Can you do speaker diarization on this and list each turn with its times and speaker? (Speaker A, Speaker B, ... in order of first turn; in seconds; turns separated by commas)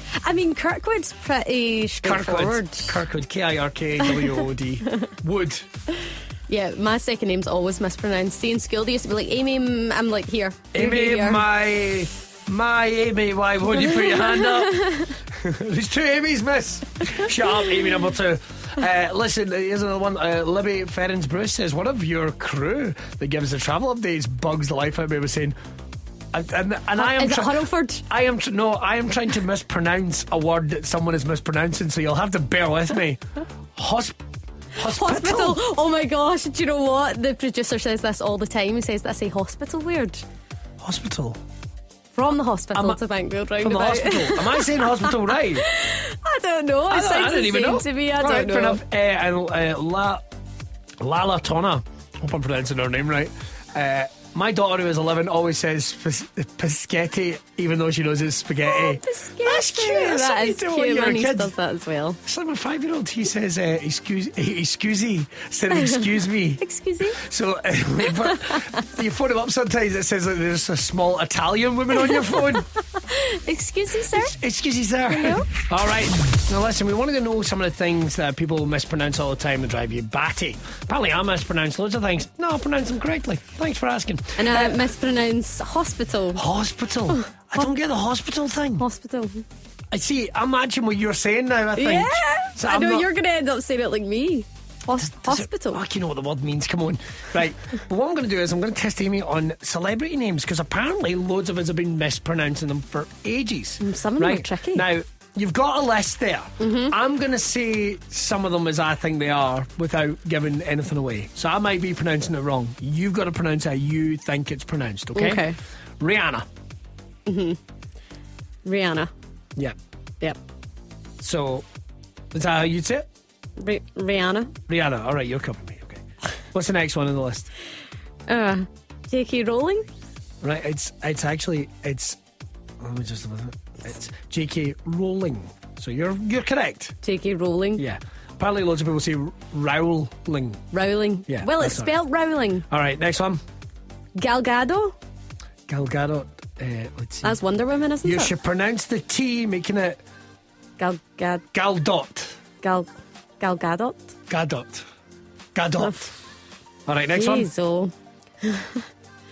Speaker A: 0.2-3.0, Speaker B: 2.0-5.7, Speaker A: 6.5-11.4, Speaker B: 10.7-25.5, Speaker A: 14.0-15.1, Speaker B: 26.3-33.2, Speaker A: 26.9-28.0, Speaker B: 33.8-34.2, Speaker B: 34.7-35.6, Speaker A: 34.8-40.2, Speaker B: 40.8-41.4, Speaker A: 42.1-48.8, Speaker B: 43.6-45.7, Speaker B: 46.9-50.2, Speaker B: 51.0-61.5, Speaker A: 58.6-62.2, Speaker B: 62.2-72.7, Speaker A: 65.7-67.2, Speaker A: 68.2-68.6, Speaker A: 72.1-74.4, Speaker B: 74.1-84.8, Speaker A: 75.1-75.5, Speaker A: 84.4-86.4, Speaker B: 86.3-88.8, Speaker A: 87.1-87.6, Speaker A: 88.8-89.4, Speaker B: 89.9-93.1, Speaker A: 91.8-95.8, Speaker B: 95.0-116.5, Speaker A: 103.8-104.9, Speaker A: 106.6-106.9, Speaker A: 115.1-115.6, Speaker A: 117.2-117.6, Speaker A: 118.6-119.1, Speaker B: 121.2-121.6, Speaker B: 122.3-123.1, Speaker A: 123.6-124.5, Speaker B: 124.7-127.5, Speaker A: 128.3-129.8, Speaker B: 130.4-132.2, Speaker B: 132.8-136.9, Speaker A: 137.0-137.8, Speaker B: 137.8-140.7, Speaker A: 140.7-142.7, Speaker B: 141.3-141.9, Speaker B: 142.7-143.4, Speaker A: 144.2-144.9, Speaker B: 145.7-147.3, Speaker A: 147.2-148.3, Speaker B: 148.0-150.0, Speaker A: 150.8-151.4, Speaker B: 151.5-152.4, Speaker A: 152.6-152.9, Speaker A: 153.4-154.1, Speaker B: 154.3-154.8, Speaker B: 155.5-156.1, Speaker B: 156.8-157.5, Speaker A: 157.1-158.8